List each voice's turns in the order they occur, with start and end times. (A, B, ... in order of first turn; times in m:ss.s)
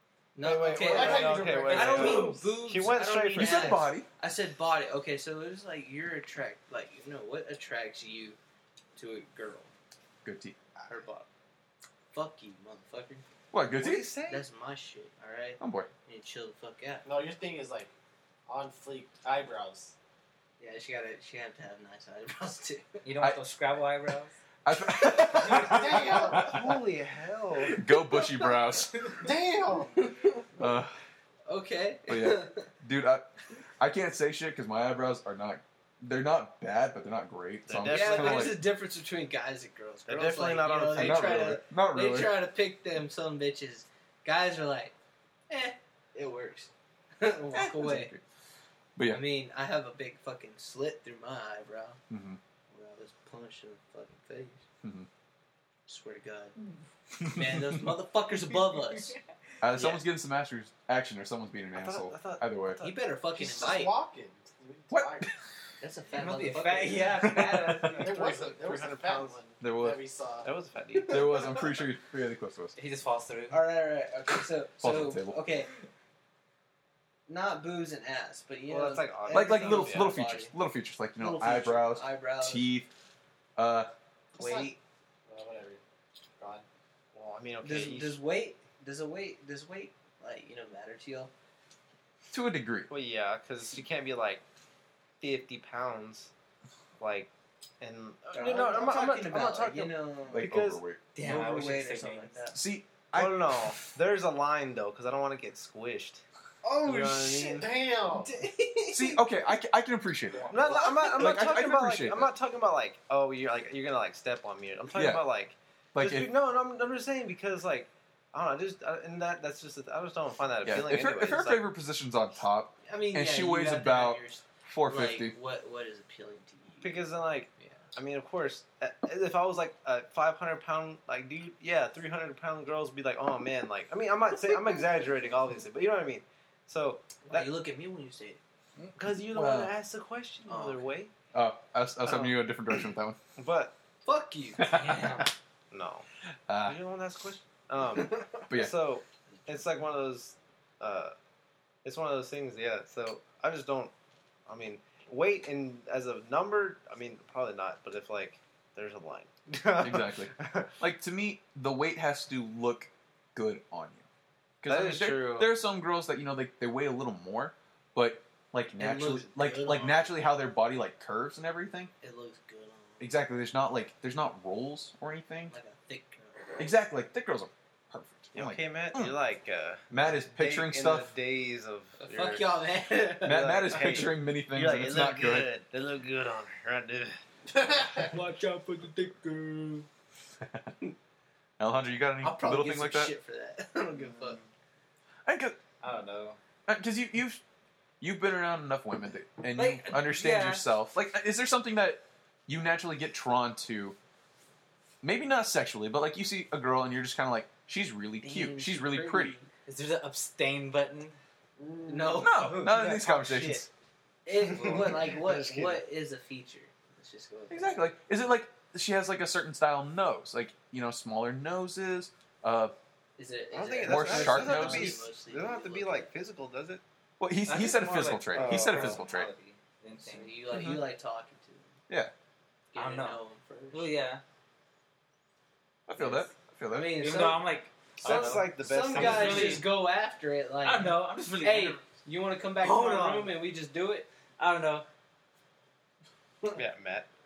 0:00.4-0:08.4 A
0:00.4-0:03.8 B
0:00.7-0:02.2 C
0:01.6-0:03.8 D
0:03.4-0:04.1 E
0:09.0-0:09.7 A
0:10.2-0:10.6 E
0:10.9-0:11.3 A
0:12.1-0:13.2 A
0:13.5-0:14.1 E
0:13.8-0:14.4 B
0:14.3-0:17.1 A
0:15.6-0:15.9 E
0:17.0-0:17.9 C
0:18.5-0:20.0 C
0:20.6-0:22.9 A
0:23.0-0:24.3 D
0:24.6-0:26.7 E
0:25.2-0:25.9 A
0:25.4-0:25.7 D
0:25.5-0:26.6 C
0:26.0-0:27.8 B
0:27.7-0:29.2 E
0:29.2-0:29.9 C
0:30.6-0:30.9 E
0:31.5-0:32.7 A
0:32.1-0:38.6 E
0:37.7-0:38.6 B
0:37.9-0:44.9 A
0:40.1-0:41.6 B
0:40.9-0:42.4 E
0:45.5-0:48.1 A
0:47.5-0:48.2 E
0:49.0-0:49.2 E
0:49.1-0:52.0 A
0:52.1-0:52.4 E
0:52.7-0:54.6 A
0:54.8-0:55.1 E
0:55.9-0:56.6 A
0:57.2-0:57.7 E
0:57.2-0:59.2 A
0:58.7-0:59.2 D
0:59.6-1:02.9 E
0:59.8-1:00.0 A
1:01.7-1:02.5 B
1:02.8-1:04.0 A
1:03.3-1:05.3 C
1:04.9-1:05.3 E
1:05.8-1:07.2 A
1:06.1-1:08.2 D
1:07.2-1:07.8 E
1:07.8-1:09.4 B
1:08.0-1:10.5 C
1:09.6-1:10.0 E
1:10.4-1:11.6 B
1:11.1-1:12.8 E
1:12.8-1:13.6 D
1:13.5-1:15.7 A
1:14.8-1:15.4 E
1:17.3-1:20.6 A
1:18.7-1:20.2 B
1:19.3-1:22.9 E
1:21.2-1:22.7 A
1:23.6-1:23.9 E
1:24.4-1:24.7 C
1:24.4-1:24.8 A
1:25.3-1:25.8 C
1:26.4-1:26.7 C
1:27.1-1:28.2 B
1:27.6-1:31.3 A
1:32.3-1:32.9 E
1:32.9-1:34.4 B
1:35.2-1:36.3 B
1:37.0-1:40.8 B
1:38.3-1:40.5 A
1:40.3-1:41.0 E
1:41.2-1:42.4 D
1:41.2-1:42.6 A
1:42.5-1:43.7 E
1:43.1-1:47.8 B
1:46.6-1:49.2 A
1:47.4-1:48.3 C
1:48.9-1:52.3 E
1:50.4-1:50.9 D
1:50.5-2:01.7 B
1:50.7-1:51.1 A
1:54.9-1:55.3 E
1:56.0-1:56.3 E
2:00.6-2:05.3 E
2:02.8-2:07.8 A
2:06.8-2:17.6 B
2:17.2-2:18.4 A
2:19.0-2:21.1 B
2:19.2-2:19.7 E
2:20.5-2:20.9 A
2:21.3-2:23.2 E
2:23.4-2:23.7 B
2:24.0-2:25.1 A
2:24.6-2:25.3 E
2:24.7-2:25.3 D
2:25.7-2:26.0 B
2:26.5-2:26.8 E
2:26.6-2:31.2 B
2:28.5-2:28.8 E
2:29.4-2:29.6 A
2:31.8-2:33.9 B
2:34.5-2:40.7 B
2:39.8-2:44.0 E
2:44.6-2:51.9 E
2:44.6-2:45.5 B
2:48.8-2:50.0 A
2:52.0-2:53.1 A
2:53.0-2:55.6 E
2:55.5-2:56.7 A
2:56.6-2:59.2 E
2:58.3-3:02.5 B
2:59.9-3:01.1 E
3:02.0-3:04.1 A
3:03.2-3:07.8 B
3:03.2-3:05.5 E
3:07.6-3:08.1 C
3:08.1-3:09.9 D
3:10.4-3:10.7 E
3:11.6-3:13.1 E
3:12.2-3:14.4 A
3:14.0-3:14.5 D
3:15.2-3:15.6 E
3:15.8-3:16.4 D
3:16.7-3:17.4 E
3:18.0-3:24.0 E
3:19.6-3:20.7 D
3:25.0-3:29.4 E
3:28.2-3:29.5 A
3:29.6-3:31.2 D
3:31.6-3:32.2 C
3:31.9-3:33.7 A
3:32.2-3:33.7 E
3:34.2-3:37.9 A
3:34.4-3:35.8 B
3:37.5-3:42.7 E
3:43.2-3:46.1 A
3:43.5-3:46.8 B
3:43.8-3:45.0 E
3:47.2-3:49.3 E
3:47.5-3:50.5 D
3:48.3-3:49.0 B
3:49.9-3:51.7 A
3:50.5-3:50.8 E
3:52.7-3:54.0 A
3:52.8-3:53.2 D
3:53.7-3:54.2 D
3:55.9-3:57.0 E
3:56.0-3:56.3 D
3:56.7-3:57.5 A
3:57.0-3:58.3 D
3:58.0-3:59.7 B
3:58.0-4:04.1 A
3:58.0-3:58.5 E
3:58.9-3:59.7 D
4:00.6-4:01.8 D
4:02.6-4:03.4 D
4:04.4-4:04.9 D
4:06.6-4:07.1 B